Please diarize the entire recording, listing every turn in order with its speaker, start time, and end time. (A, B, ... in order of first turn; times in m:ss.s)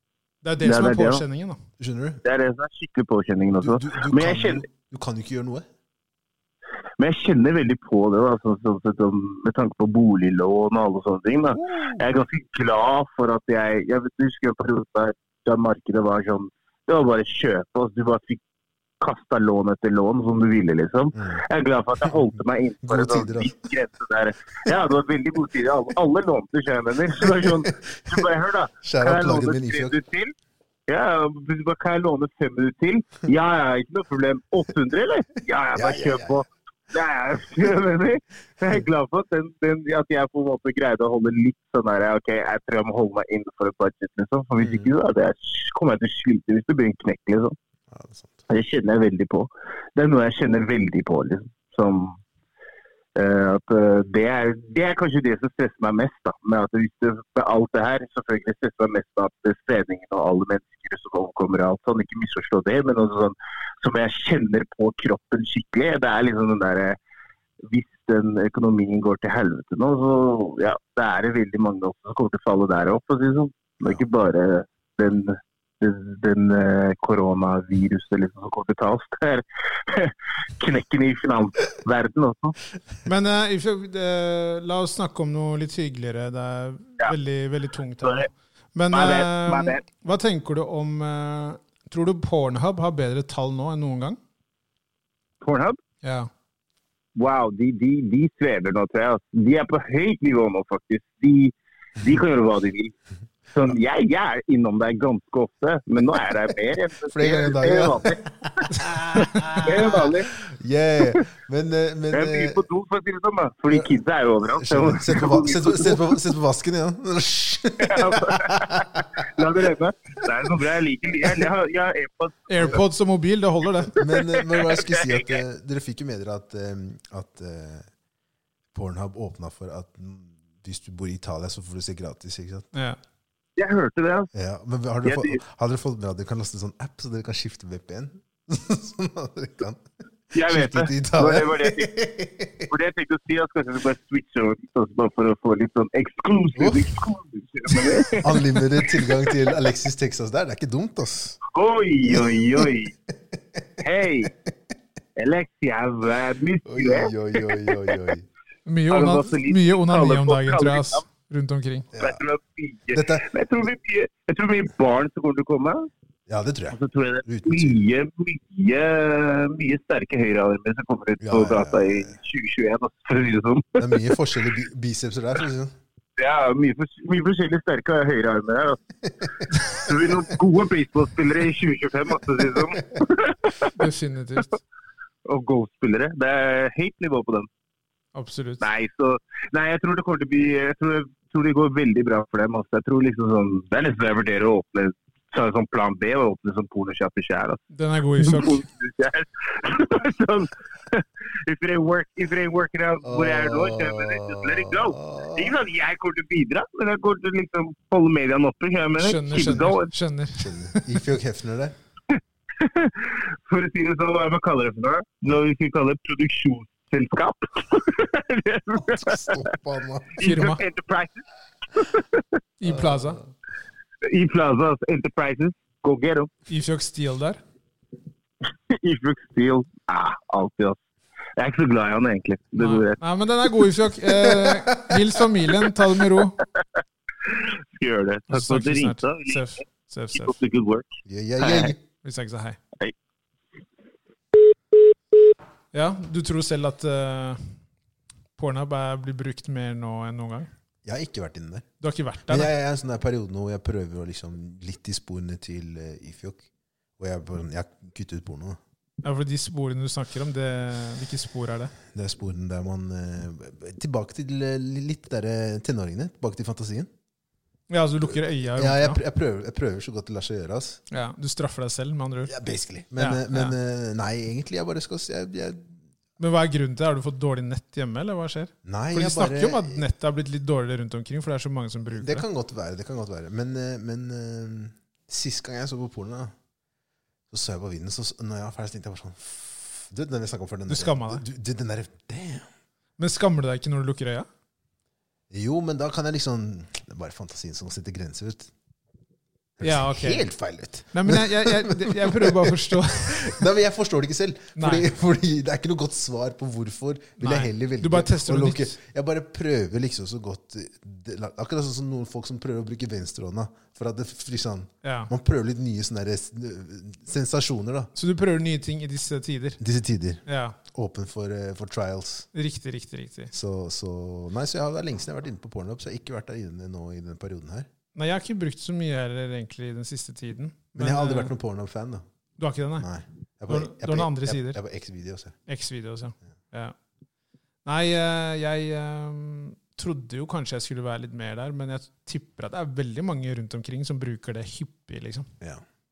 0:00.4-0:01.6 A
0:00.6-0:01.2 B
0:01.8-0:02.2 C
0:02.2-0:04.6 B
0:03.6-0:05.6 C
0:07.0-0:18.4 B
0:11.5-0:12.0 C
0:19.0-0:30.3 B
0:21.1-0:21.4 C
0:22.8-0:23.6 C
0:27.2-0:28.3 C
0:28.8-0:30.0 C
0:30.9-0:47.6 B
0:35.7-0:36.4 C
0:44.6-0:44.9 C
0:47.9-0:48.4 C
0:48.5-0:52.2 B
0:53.1-1:07.0 B
1:07.7-1:22.6 B
1:23.0-1:34.2 A
1:28.9-1:29.8 B
1:35.4-1:35.8 B
1:36.0-1:36.3 A
1:37.2-1:43.0 B
1:43.5-1:50.3 B
1:47.1-1:52.6 C
1:52.1-1:56.1 B
1:53.7-1:59.6 C
1:57.8-2:02.8 B
2:02.5-2:04.0 A
2:03.9-2:07.9 C
2:04.0-2:05.4 B
2:08.7-2:12.7 C
2:12.7-2:13.0 A
2:13.6-2:14.3 B
2:14.3-2:22.7 C
2:15.0-2:15.4 B
2:20.3-2:21.9 B
2:22.7-2:29.1 B
2:26.5-2:26.9 C
2:27.7-2:31.4 C
2:31.5-2:32.9 B
2:32.0-2:33.6 C
2:33.8-2:34.3 B
2:35.2-2:37.9 B
2:36.6-2:38.3 C
2:38.6-2:41.9 A
2:38.9-2:41.0 B
2:41.9-2:42.2 C
2:42.0-2:45.9 B
2:42.9-2:43.2 C
2:46.3-2:47.8 C
2:46.7-2:54.0 B
2:51.2-2:52.1 C
2:53.8-2:55.7 C
2:56.2-2:58.8 B
2:59.5-3:03.7 B
2:59.5-3:00.1 C
3:03.7-3:04.6 A
3:05.2-3:07.5 B
3:08.1-3:08.6 A
3:08.6-3:17.6 B
3:17.7-3:18.6 A
3:18.2-3:29.9 B
3:23.0-3:25.5 C
3:29.0-3:30.5 A
3:30.4-3:31.7 C
3:32.2-3:39.4 B
3:38.8-3:40.2 C
3:40.2-3:41.2 B
3:40.2-3:40.6 A
3:41.7-3:42.2 B
3:42.6-3:43.2 A
3:42.7-3:43.1 C
3:44.0-3:46.3 B
3:46.5-3:47.4 A
3:48.7-3:50.8 B
3:51.4-3:53.0 B
3:52.6-3:56.4 A
3:57.2-3:59.4 B
3:58.3-4:00.3 A
4:00.1-4:01.7 B
4:01.0-4:01.8 C
4:02.0-4:02.6 A
4:05.7-4:07.6 A
4:08.4-4:10.5 A
4:10.8-4:11.7 C
4:11.8-4:12.5 A
4:12.3-4:16.4 C
4:17.0-4:18.6 C
4:19.0-4:21.7 A
4:21.9-4:26.9 C
4:27.7-4:29.0 A
4:28.5-4:30.8 C
4:30.9-4:32.3 A
4:32.2-4:35.8 C
4:33.0-4:33.5 A
4:36.2-4:42.2 A
4:38.6-4:39.8 C
4:41.9-4:46.3 C
4:47.3-4:52.5 C
4:50.7-4:51.2 A
4:53.0-4:54.3 A
4:55.3-4:58.5 C
4:59.6-5:17.9 C
4:59.6-5:00.3 A
5:00.9-5:03.4 A
5:04.6-5:04.9 A
5:07.2-5:08.8 A
5:14.8-5:15.1 A
5:17.9-5:19.6 A
5:19.6-5:22.3 C
5:20.2-5:20.6 A
5:22.3-5:23.3 A
5:23.3-5:27.7 C
5:27.9-5:31.3 A
5:30.7-5:32.0 C
5:32.4-5:32.9 A
5:32.8-5:35.4 C
5:33.5-5:34.6 A
5:35.5-5:36.7 A
5:37.6-5:45.3 A